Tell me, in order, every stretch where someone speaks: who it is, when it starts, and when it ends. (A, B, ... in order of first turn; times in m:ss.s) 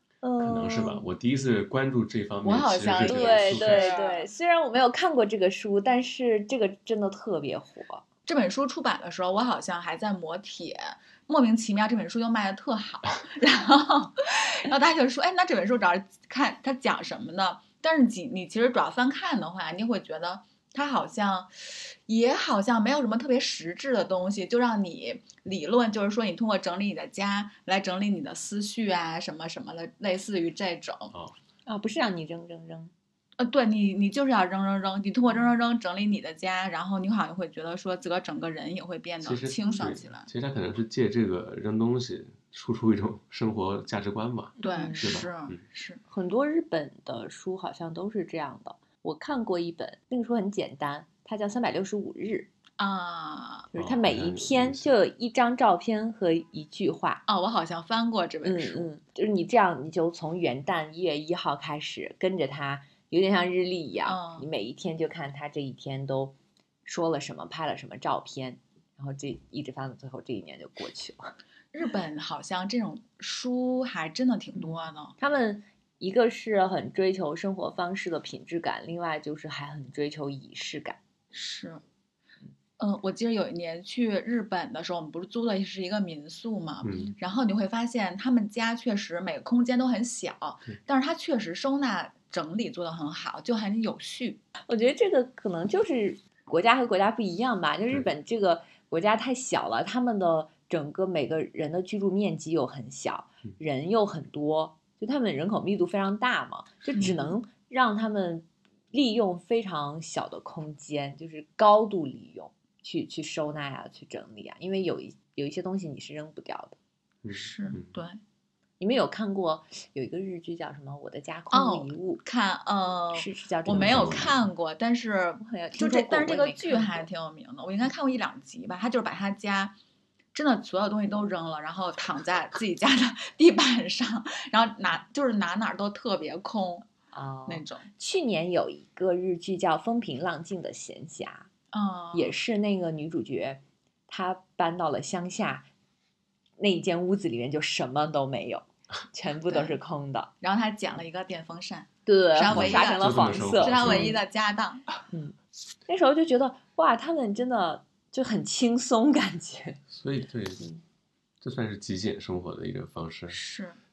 0:00.2-0:01.1 A
0:00.4-0:03.9 B
0:02.4-0:04.3 C
0:03.0-0:08.0 A
0:08.3-0:31.1 C
0:31.7-0:32.9 A
0:33.4-0:40.3 C
0:39.2-0:45.6 B
0:44.6-0:46.0 C
0:44.6-0:45.2 A
0:46.1-0:52.5 A
0:52.8-0:53.7 C
0:53.7-0:57.2 A
0:53.8-0:54.9 B
0:57.3-0:58.9 C
0:58.4-1:11.3 A
1:04.1-1:04.5 C
1:11.7-1:15.2 C
1:14.6-1:21.0 A
1:21.3-1:21.8 C
1:22.8-1:34.4 C
1:26.8-1:27.1 B
1:34.7-1:56.8 A
1:47.0-1:47.3 C
1:57.2-1:57.9 B
1:57.3-1:58.2 C
1:58.8-2:02.2 A
2:01.5-2:09.8 C
2:03.1-2:04.3 A
2:03.7-2:04.3 B
2:05.4-2:07.1 A
2:10.3-2:16.9 C
2:17.1-2:21.5 A
2:17.5-2:17.9 C
2:21.7-2:22.4 C
2:22.1-2:25.7 A
2:26.6-2:30.3 A
2:29.5-2:29.8 C
2:30.4-2:34.8 C
2:32.1-2:34.2 A
2:32.5-2:34.2 B
2:35.1-2:35.4 A
2:35.9-2:39.8 A
2:39.9-2:40.6 B
2:41.4-2:43.4 B
2:43.3-2:43.8 C